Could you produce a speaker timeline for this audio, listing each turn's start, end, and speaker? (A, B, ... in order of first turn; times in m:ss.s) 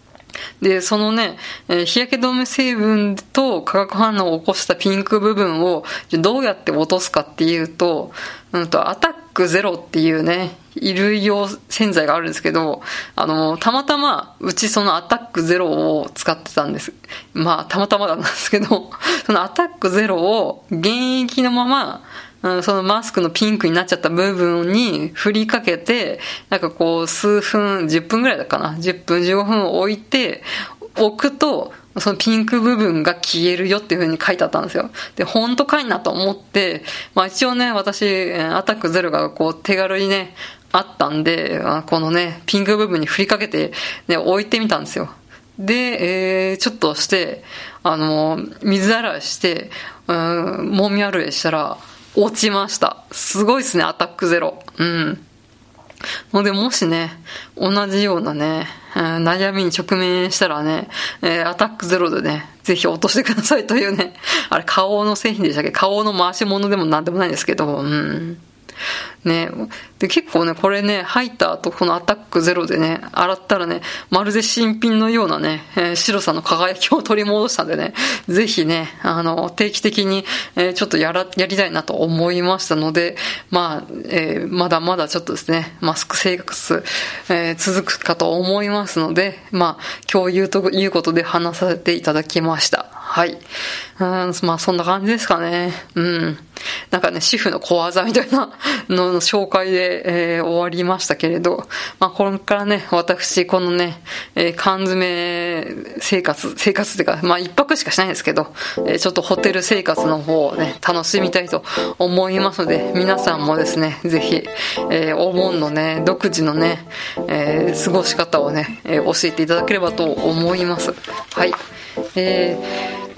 0:00.6-0:55.2 A
0:56.3-1:08.4 A
1:09.2-1:33.4 A
1:34.0-2:01.6 A
2:02.1-2:02.7 A